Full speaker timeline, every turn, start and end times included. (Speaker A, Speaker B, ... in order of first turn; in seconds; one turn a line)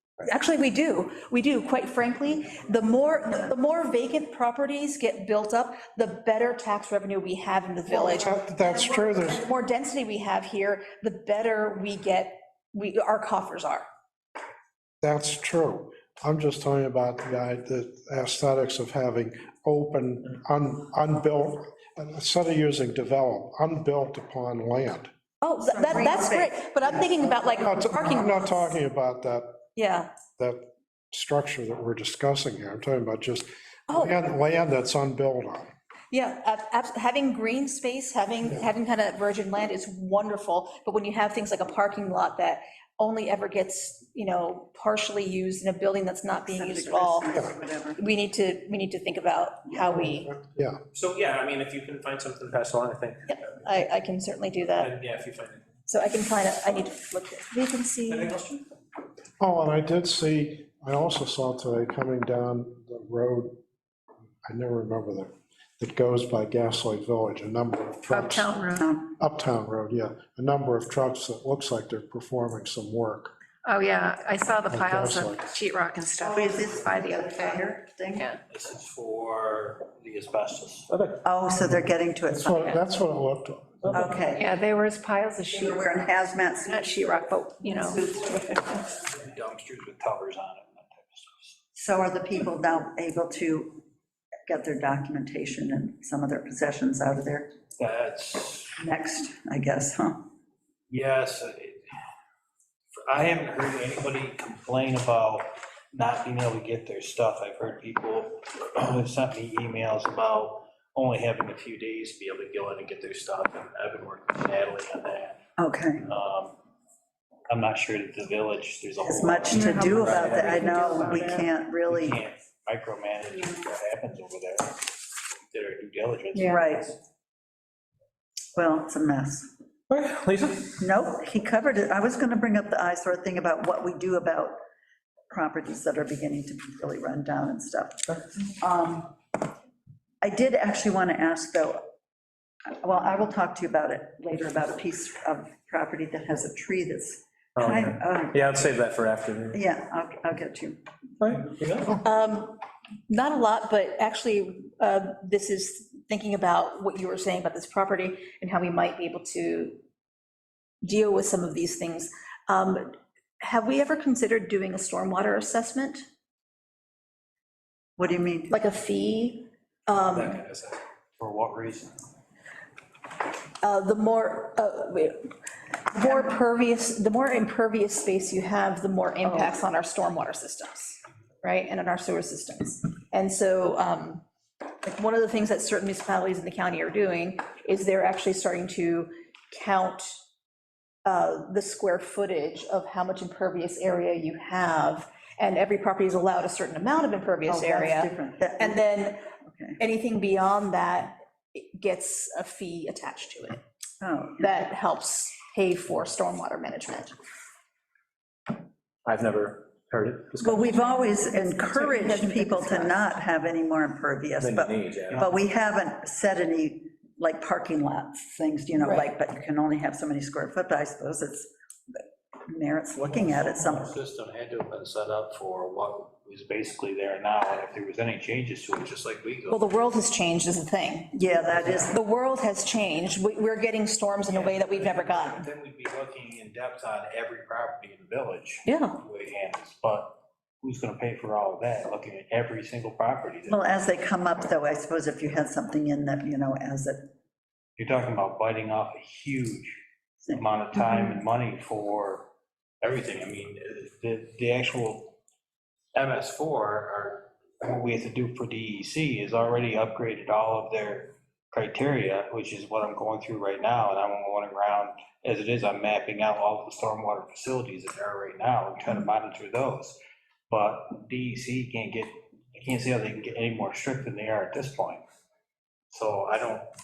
Speaker A: 0.2-13.9
Speaker B: 7.9-9.4
Speaker B: 15.0-25.1
Speaker A: 25.4-28.8
Speaker C: 25.6-27.5
Speaker B: 27.6-29.5
Speaker A: 29.8-30.1
Speaker B: 30.4-35.7
Speaker A: 33.9-34.2
Speaker A: 36.1-50.3
Speaker C: 46.5-48.0
Speaker B: 50.4-50.8
Speaker D: 51.0-53.2
Speaker A: 53.3-54.9
Speaker D: 54.9-55.6
Speaker A: 55.9-58.4
Speaker D: 58.1-58.4
Speaker B: 59.4-63.6
Speaker B: 64.4-68.6
Speaker E: 68.1-68.9
Speaker C: 68.8-69.1
Speaker B: 69.2-73.3
Speaker E: 73.6-78.4
Speaker B: 74.7-75.5
Speaker C: 76.2-78.3
Speaker F: 78.5-80.9
Speaker C: 81.2-82.8
Speaker B: 82.3-84.2
Speaker C: 83.9-84.5
Speaker E: 84.4-88.0
Speaker C: 85.5-87.0
Speaker C: 88.0-88.5
Speaker F: 88.9-91.6
Speaker C: 91.8-93.8
Speaker C: 94.5-97.5
Speaker F: 97.8-98.8
Speaker C: 98.8-100.3
Speaker F: 100.9-101.9
Speaker F: 103.0-115.4
Speaker C: 115.6-116.0
Speaker F: 116.0-116.6
Speaker F: 117.5-121.3
Speaker C: 119.0-122.2
Speaker D: 120.1-120.5
Speaker E: 120.5-121.2
Speaker F: 121.9-124.9
Speaker F: 125.5-127.0
Speaker C: 126.3-126.9
Speaker C: 128.6-129.5
Speaker D: 129.9-130.6
Speaker C: 130.8-134.6
Speaker C: 135.3-139.2
Speaker C: 140.2-141.9
Speaker C: 142.7-148.5
Speaker D: 147.6-149.6
Speaker C: 149.5-150.8
Speaker D: 151.2-151.8
Speaker A: 152.0-159.8
Speaker A: 160.8-166.0
Speaker C: 168.0-168.5
Speaker A: 168.5-170.4
Speaker F: 170.0-172.0
Speaker A: 173.6-175.3
Speaker A: 175.9-184.2
Speaker A: 184.8-190.2
Speaker A: 191.1-199.2
Speaker C: 197.5-198.9
Speaker C: 199.5-199.8
Speaker A: 199.8-203.6
Speaker C: 204.0-204.4
Speaker A: 204.4-207.2
Speaker D: 209.1-210.6
Speaker C: 210.4-223.9
Speaker A: 211.0-213.2
Speaker D: 214.4-215.2
Speaker A: 218.8-219.1
Speaker F: 223.0-229.7
Speaker A: 229.5-231.1
Speaker C: 231.1-231.9
Speaker A: 231.7-235.4
Speaker F: 234.3-243.6
Speaker A: 238.7-239.0
Speaker C: 243.5-247.1
Speaker F: 247.8-249.8
Speaker C: 250.2-251.2
Speaker F: 250.3-252.3
Speaker F: 252.8-255.2
Speaker F: 255.9-270.0
Speaker F: 270.5-275.0
Speaker F: 275.9-276.7